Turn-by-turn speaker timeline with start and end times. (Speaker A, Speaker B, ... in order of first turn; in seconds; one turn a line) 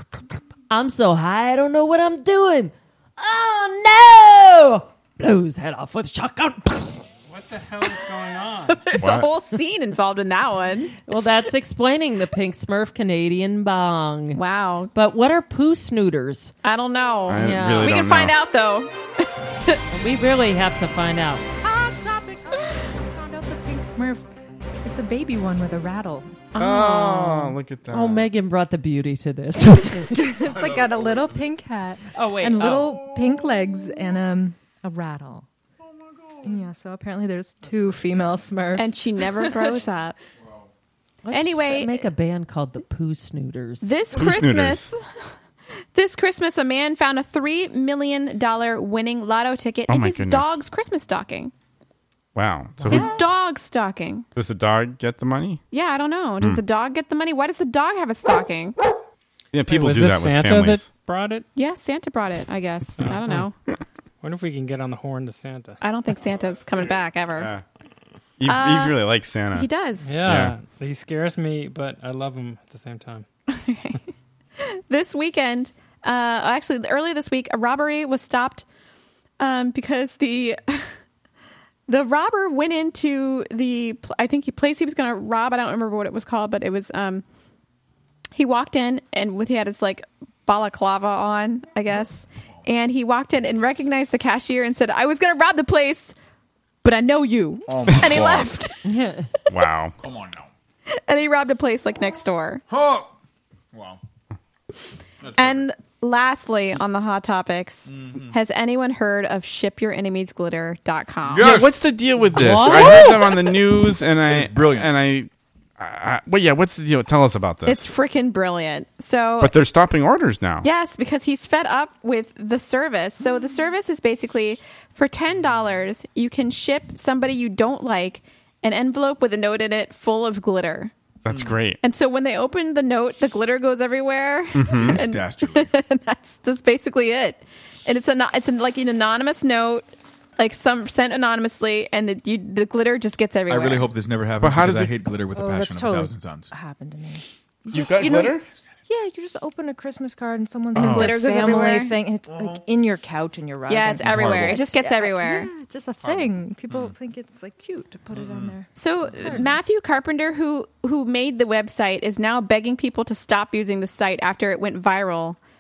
Speaker A: 0.7-7.1
Speaker B: 7.3-8.8
Speaker C: 8.7-10.9
Speaker D: 9.0-9.3
Speaker A: 11.1-14.4
Speaker C: 14.3-14.9
Speaker A: 14.9-16.5
Speaker C: 16.6-18.9
Speaker D: 17.3-18.4
Speaker A: 17.4-17.9
Speaker A: 19.9-21.4
Speaker E: 21.6-24.3
Speaker E: 24.8-26.4
Speaker C: 26.6-27.5
Speaker D: 26.6-28.3
Speaker A: 27.9-30.1
Speaker E: 30.1-35.5
Speaker F: 30.4-31.4
Speaker A: 32.1-33.0
Speaker E: 36.4-39.8
Speaker C: 38.8-40.2
Speaker A: 41.2-43.9
Speaker C: 41.3-42.0
Speaker C: 43.8-45.1
Speaker D: 44.1-45.0
Speaker C: 45.9-51.5
Speaker D: 49.9-50.6
Speaker D: 52.4-53.1
Speaker B: 52.8-53.1
Speaker C: 52.9-54.3
Speaker D: 54.4-55.6
Speaker C: 55.7-58.8
Speaker D: 59.5-60.9
Speaker B: 59.7-61.5
Speaker C: 61.5-63.5
Speaker B: 63.0-63.5
Speaker B: 64.2-65.8
Speaker C: 65.8-67.5
Speaker D: 67.4-67.6
Speaker D: 68.4-69.7
Speaker C: 68.5-69.0
Speaker C: 69.5-70.2
Speaker B: 70.0-73.3
Speaker D: 70.2-70.6
Speaker C: 73.5-74.0
Speaker C: 74.6-78.7
Speaker C: 79.4-80.9
Speaker C: 81.9-87.2
Speaker C: 88.3-96.2
Speaker C: 96.8-98.8
Speaker F: 97.7-98.5
Speaker D: 97.9-98.5
Speaker A: 98.8-99.3
Speaker D: 99.5-99.9
Speaker F: 100.0-100.5
Speaker C: 101.0-102.6
Speaker F: 102.7-103.1
Speaker F: 103.7-104.0
Speaker F: 105.2-105.6
Speaker C: 105.4-111.5
Speaker F: 107.9-108.3
Speaker F: 111.3-111.7
Speaker D: 111.4-117.8
Speaker A: 112.3-113.2
Speaker F: 112.8-113.1
Speaker F: 114.2-114.9
Speaker C: 117.7-119.5
Speaker D: 119.4-120.7
Speaker C: 120.6-130.9
Speaker D: 131.2-131.8
Speaker F: 131.3-131.6
Speaker C: 131.8-139.9
Speaker D: 134.6-135.0
Speaker F: 134.7-135.7
Speaker C: 140.4-143.9
Speaker F: 143.5-146.5
Speaker D: 144.4-144.9
Speaker E: 145.3-159.5
Speaker D: 147.7-148.4
Speaker F: 150.8-151.1
Speaker C: 150.8-152.0
Speaker F: 152.3-152.6
Speaker C: 153.7-155.5
Speaker F: 154.1-154.5
Speaker F: 156.0-156.9
Speaker F: 158.1-158.5
Speaker C: 158.8-165.4